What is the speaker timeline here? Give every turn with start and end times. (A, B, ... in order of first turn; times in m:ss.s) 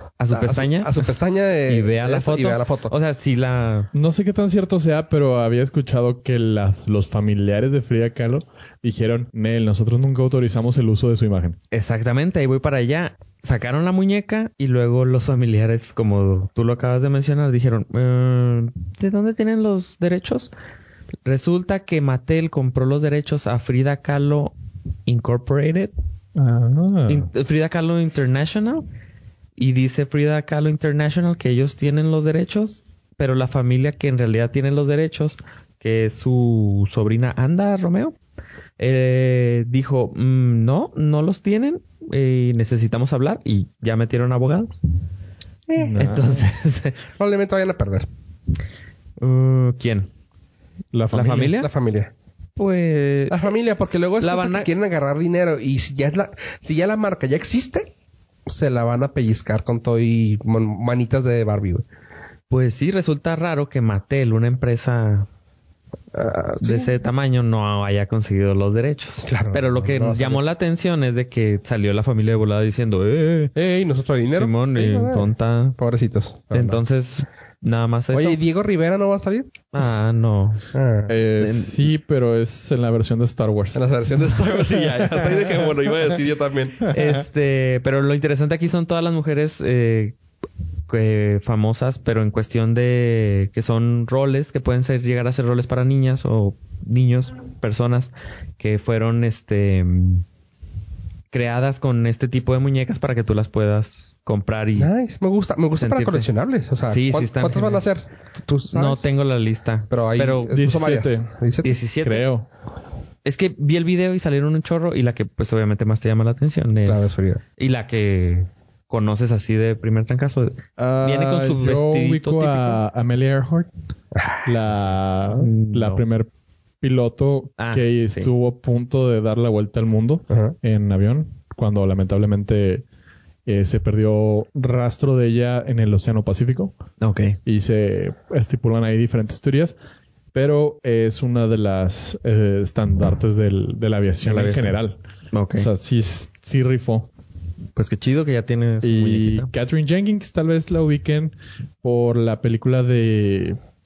0:00.2-0:01.1 A
0:00.3-0:02.9 B
0:01.7-0:03.9 A
0:03.9-0:11.6 C
0:11.7-0:20.5 A
0:21.3-0:24.5 A
0:25.1-0:25.9 A
0:26.4-0:27.3 C
0:27.1-0:28.9 A
0:29.6-0:38.2 A
0:38.8-0:44.8 A
0:45.7-0:46.2 B
0:45.8-0:46.3 C
0:46.0-0:47.0 A
0:47.2-0:48.1 B
0:49.2-0:50.1 A
0:50.9-0:51.6 C
0:51.1-0:51.7 A
0:51.4-0:52.1 B
0:52.6-0:53.5 A
0:53.3-0:57.9 B
0:54.2-0:54.7 A
0:58.5-1:01.8 B
1:02.5-1:05.3 A
1:06.1-1:06.9 B
1:06.6-1:13.6 A
1:09.2-1:10.4 B
1:13.6-1:16.8 B
1:14.4-1:15.8 A
1:16.5-1:18.4 A
1:18.1-1:19.5 B
1:19.7-1:20.6 A
1:20.7-1:21.1 B
1:21.1-1:23.8 C
1:21.4-1:21.7 A
1:23.8-1:26.9 B
1:26.9-1:30.2 A
1:30.9-1:40.2 A
1:41.3-1:44.9 A
1:44.8-1:49.2 B
1:45.8-1:46.3 A
1:46.9-1:47.8 A
1:48.7-1:50.5 A
1:49.9-1:51.7 B
1:50.5-1:51.3 C
1:51.6-1:52.2 A
1:52.0-1:52.5 C
1:53.2-2:02.8 A
1:56.8-1:57.4 B
2:00.8-2:03.7 C
2:04.1-2:04.5 B
2:04.4-2:06.3 C
2:05.3-2:06.0 A
2:06.8-2:12.8 C
2:07.6-2:08.3 A
2:10.3-2:10.6 B
2:13.5-2:16.8 C
2:17.0-2:17.4 A
2:17.5-2:19.8 C
2:20.3-2:25.0 C
2:24.2-2:24.8 A
2:25.3-2:25.7 A
2:25.6-2:27.1 C
2:27.8-2:29.5 A
2:28.8-2:33.6 C